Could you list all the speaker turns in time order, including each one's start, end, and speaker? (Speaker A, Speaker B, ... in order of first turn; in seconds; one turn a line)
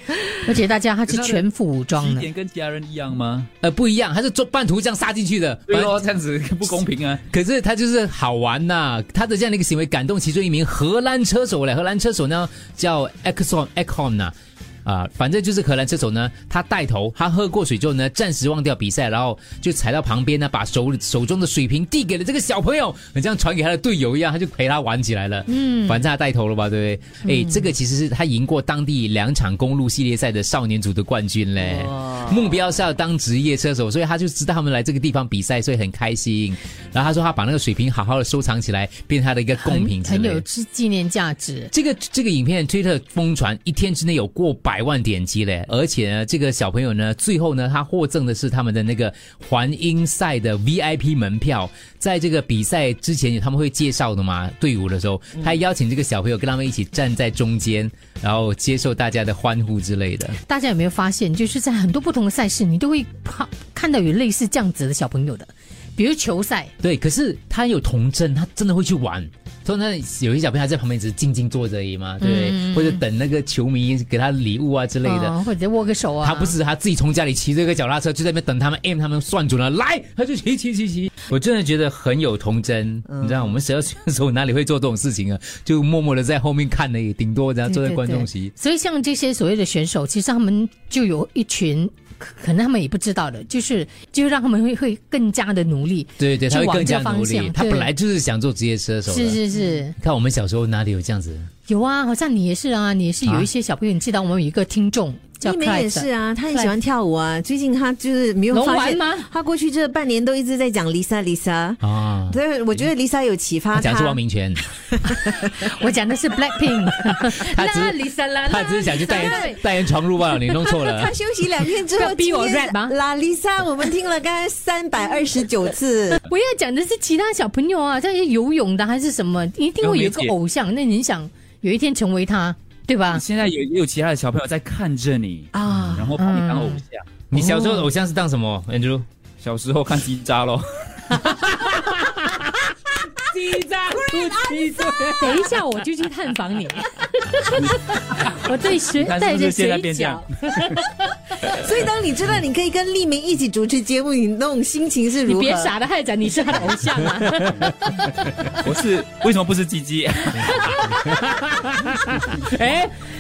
Speaker A: 0.3-2.2
Speaker B: 1.1-3.5
Speaker C: 3.6-6.0
Speaker B: 5.7-7.2
Speaker C: 7.3-14.3
Speaker C: 14.8-40.4
Speaker A: 25.5-26.0
Speaker A: 27.3-27.6
Speaker D: 31.9-32.2
Speaker A: 39.6-41.7
Speaker C: 41.7-60.4
Speaker A: 60.4-66.7
Speaker C: 66.8-75.3
Speaker A: 72.2-73.0
Speaker A: 75.0-76.5
Speaker C: 76.2-88.5
Speaker D: 83.1-83.4
Speaker A: 87.7-97.9
Speaker C: 96.2-99.4
Speaker A: 99.0-100.0
Speaker C: 100.0-101.5
Speaker A: 101.7-106.7
Speaker D: 105.4-114.2
Speaker A: 108.5-109.3
Speaker C: 111.8-112.4
Speaker C: 113.7-114.6
Speaker A: 115.0-119.6
Speaker C: 117.4-121.1
Speaker D: 118.9-119.5
Speaker D: 120.8-126.2
Speaker A: 121.9-123.0
Speaker A: 126.1-133.2
Speaker B: 129.8-130.3
Speaker B: 133.1-137.1
Speaker D: 135.5-136.1
Speaker A: 136.2-136.8
Speaker C: 137.3-139.1
Speaker D: 137.3-137.9
Speaker B: 139.4-141.0
Speaker C: 141.2-145.7
Speaker A: 145.2-150.8
Speaker B: 147.5-150.8
Speaker D: 151.4-155.7
Speaker A: 155.2-158.3
Speaker B: 158.6-160.7
Speaker A: 160.4-161.0
Speaker C: 160.4-162.9